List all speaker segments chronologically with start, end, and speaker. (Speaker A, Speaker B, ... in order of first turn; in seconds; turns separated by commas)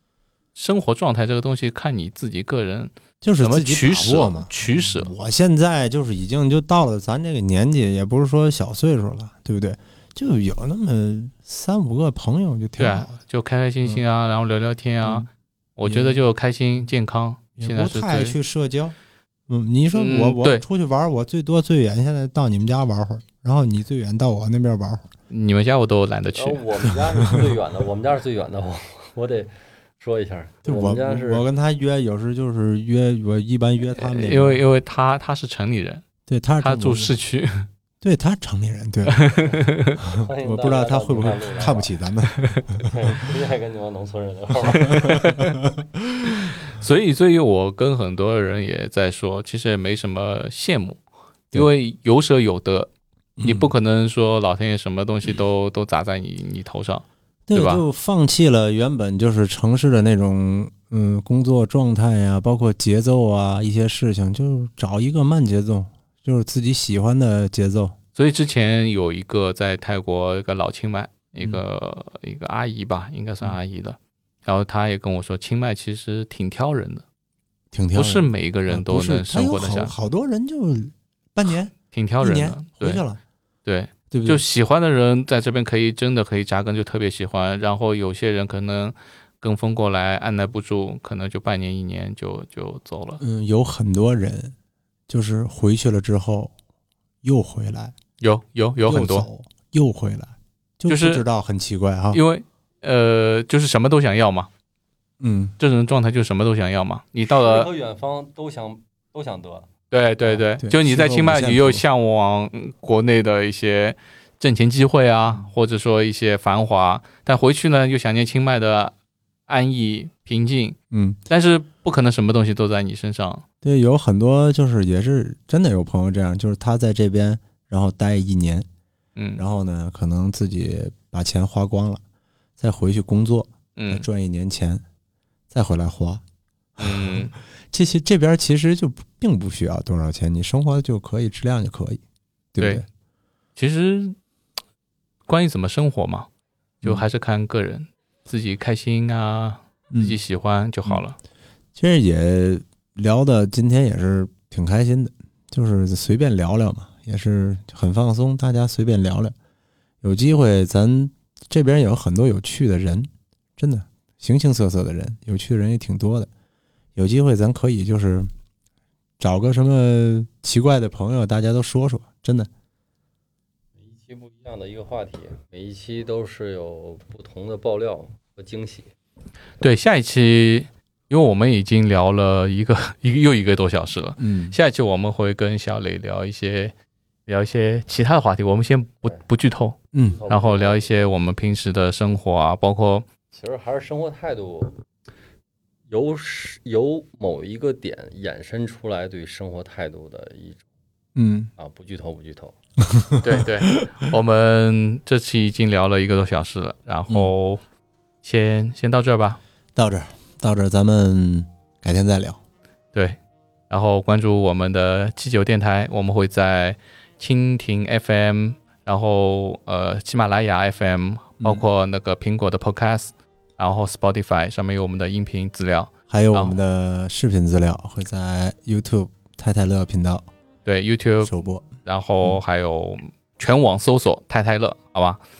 Speaker A: 0.5-5.1, Speaker B: 3.2-13.1, Speaker A: 12.8-18.4, Speaker B: 15.0-15.3, Speaker B: 15.8-16.2, Speaker B: 17.6-18.9, Speaker B: 19.5-25.0, Speaker A: 19.9-20.6, Speaker A: 25.3-26.6, Speaker C: 26.3-31.4, Speaker B: 30.6-34.6, Speaker A: 34.0-36.0, Speaker B: 36.3-37.1, Speaker A: 36.6-37.7, Speaker B: 38.0-39.2, Speaker A: 39.1-40.0, Speaker B: 40.0-42.8, Speaker C: 40.2-41.9, Speaker A: 42.4-42.6, Speaker C: 42.8-45.3, Speaker B: 44.8-46.3, Speaker A: 44.9-45.5, Speaker A: 46.5-51.0, Speaker A: 51.5-52.9, Speaker B: 53.4-53.7, Speaker A: 53.4-57.8, Speaker B: 57.5-68.0, Speaker A: 68.1-77.0, Speaker B: 77.7-83.2, Speaker A: 77.9-79.9, Speaker A: 81.9-83.0, Speaker A: 83.7-93.2, Speaker B: 84.1-84.4, Speaker B: 93.2-94.5, Speaker B: 95.1-96.5, Speaker B: 97.2-97.9, Speaker A: 98.2-99.3, Speaker B: 98.8-102.2, Speaker A: 100.9-101.2, Speaker A: 102.1-104.5, Speaker B: 105.2-105.5, Speaker A: 105.6-107.7, Speaker C: 107.3-109.7, Speaker A: 109.9-118.9, Speaker B: 110.6-111.8, Speaker A: 119.5-120.8, Speaker B: 120.9-121.2, Speaker A: 121.3-123.4, Speaker B: 123.6-128.7, Speaker A: 129.2-129.4, Speaker B: 129.4-132.0, Speaker B: 132.6-134.8, Speaker A: 133.8-134.1, Speaker B: 135.5-136.2, Speaker B: 136.8-142.0, Speaker A: 136.8-137.3, Speaker B: 142.5-142.8, Speaker A: 143.6-144.2, Speaker A: 145.3-146.3, Speaker A: 146.8-151.2, Speaker B: 149.9-150.2, Speaker B: 151.7-159.3, Speaker B: 160.0-166.3, Speaker B: 166.9-168.3, Speaker B: 169.2-172.5, Speaker C: 173.8-178.9, Speaker A: 179.6-186.7, Speaker B: 184.2-184.6, Speaker A: 187.3-193.1, Speaker B: 189.9-190.2, Speaker C: 190.2-190.9, Speaker C: 193.3-194.8, Speaker C: 195.9-200.7, Speaker B: 201.1-201.5, Speaker C: 201.6-202.5, Speaker B: 202.8-203.5, Speaker A: 203.2-207.6, Speaker A: 208.2-209.4, Speaker B: 209.8-212.4, Speaker A: 213.7-226.6, Speaker B: 226.1-230.3, Speaker A: 230.6-231.3, Speaker B: 231.2-231.7, Speaker A: 231.8-235.2